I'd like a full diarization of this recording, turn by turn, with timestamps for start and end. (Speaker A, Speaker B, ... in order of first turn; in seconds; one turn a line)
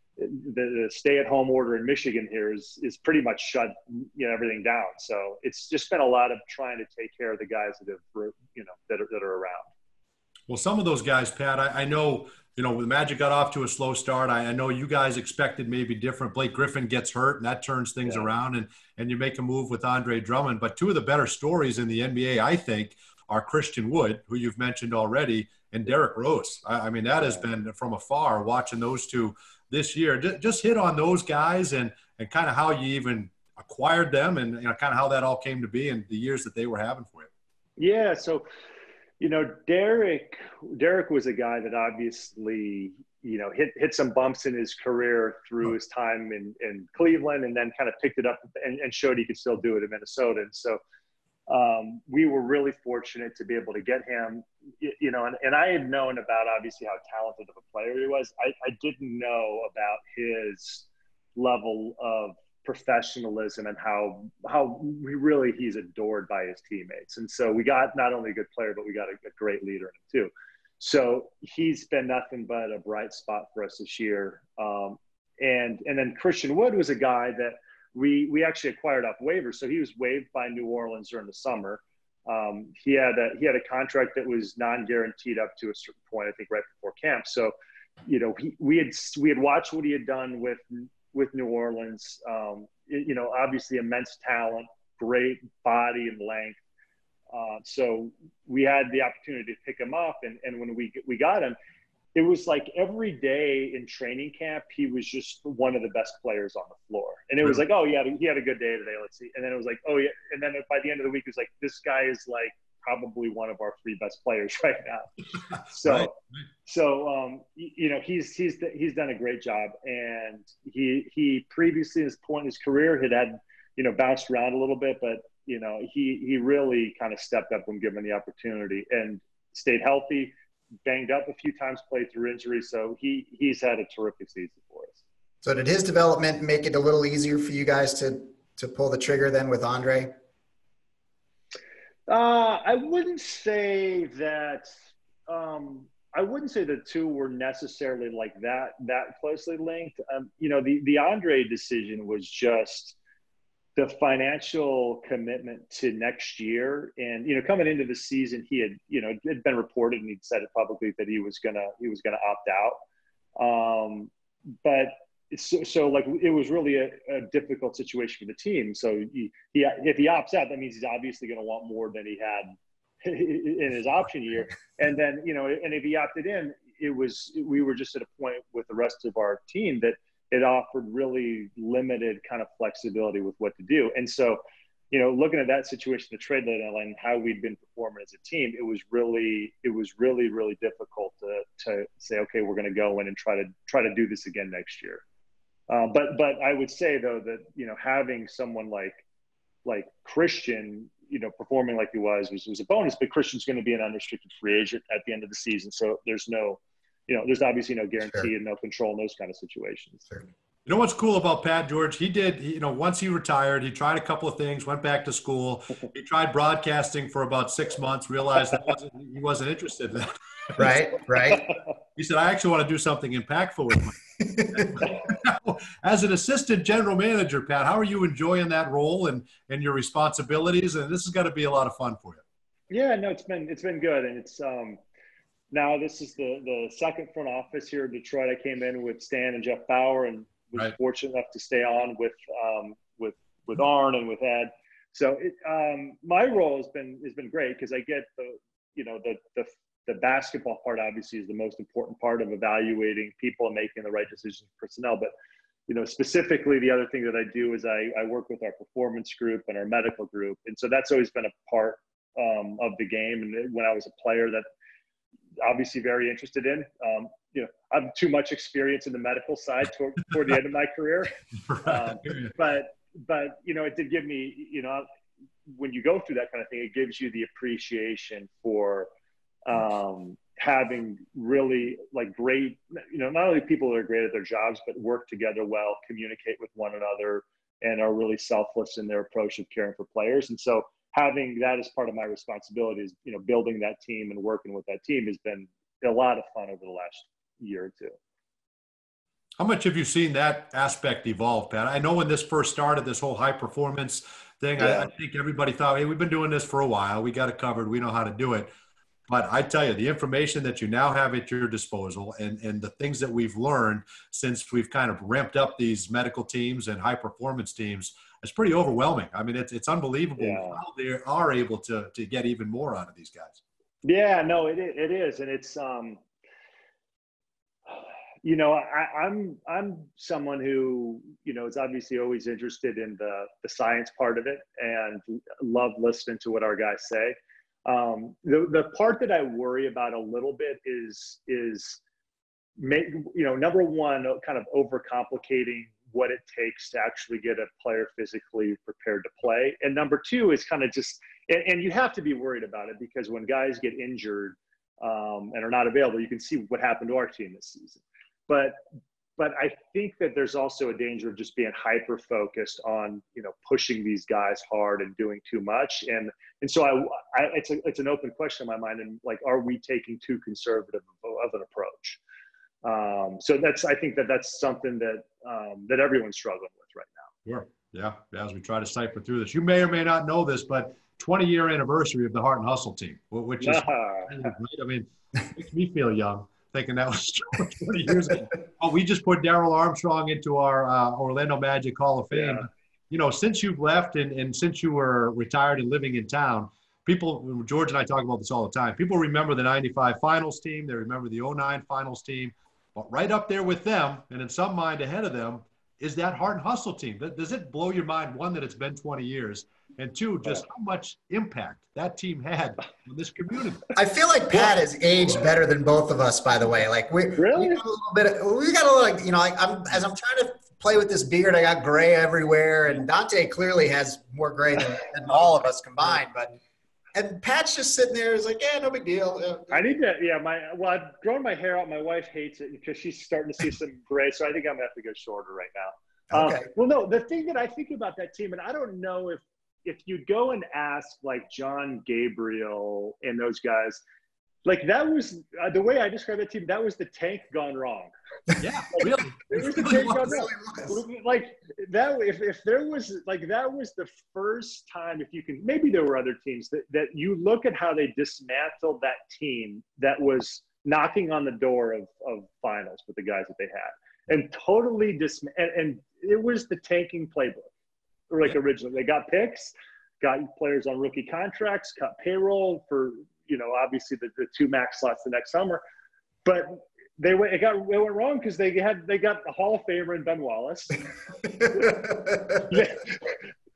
Speaker A: 0.2-9.7
Speaker B: 10.5-37.3
Speaker A: 18.1-18.3
Speaker A: 27.2-27.4
Speaker A: 37.8-38.4
Speaker A: 39.2-50.8
Speaker A: 51.5-87.5
Speaker A: 88.0-96.6
Speaker A: 97.3-101.5
Speaker A: 102.1-130.3
Speaker B: 115.8-116.1
Speaker A: 130.8-135.0
Speaker C: 135.4-140.1
Speaker A: 142.1-144.7
Speaker A: 145.3-152.9
Speaker A: 153.8-162.8
Speaker A: 163.3-164.1
Speaker A: 164.6-184.4
Speaker A: 184.9-195.0
Speaker A: 195.7-199.0
Speaker A: 199.6-210.1
Speaker B: 210.7-220.9
Speaker C: 220.6-221.5
Speaker B: 221.9-232.2
Speaker C: 224.2-224.8
Speaker A: 232.7-234.8
Speaker A: 235.5-255.1
Speaker A: 255.7-264.4
Speaker A: 265.4-274.9
Speaker B: 271.4-272.3
Speaker A: 275.5-278.9
Speaker A: 279.4-298.0
Speaker B: 299.4-308.5
Speaker A: 304.6-304.9
Speaker B: 309.1-323.4
Speaker A: 320.2-320.6
Speaker A: 323.8-326.0
Speaker A: 327.7-341.8
Speaker A: 342.6-358.6
Speaker A: 359.2-372.0
Speaker A: 372.6-377.1
Speaker B: 377.2-413.6
Speaker A: 383.4-384.3
Speaker A: 392.1-392.4
Speaker C: 413.7-426.4
Speaker A: 417.2-417.6
Speaker C: 426.9-429.6
Speaker A: 429.5-443.8
Speaker C: 436.1-436.5
Speaker A: 444.4-447.9
Speaker B: 448.4-450.2
Speaker A: 448.8-467.4
Speaker C: 450.0-450.8
Speaker A: 468.1-475.6
Speaker A: 476.2-480.9
Speaker C: 481.4-482.4
Speaker A: 481.4-483.2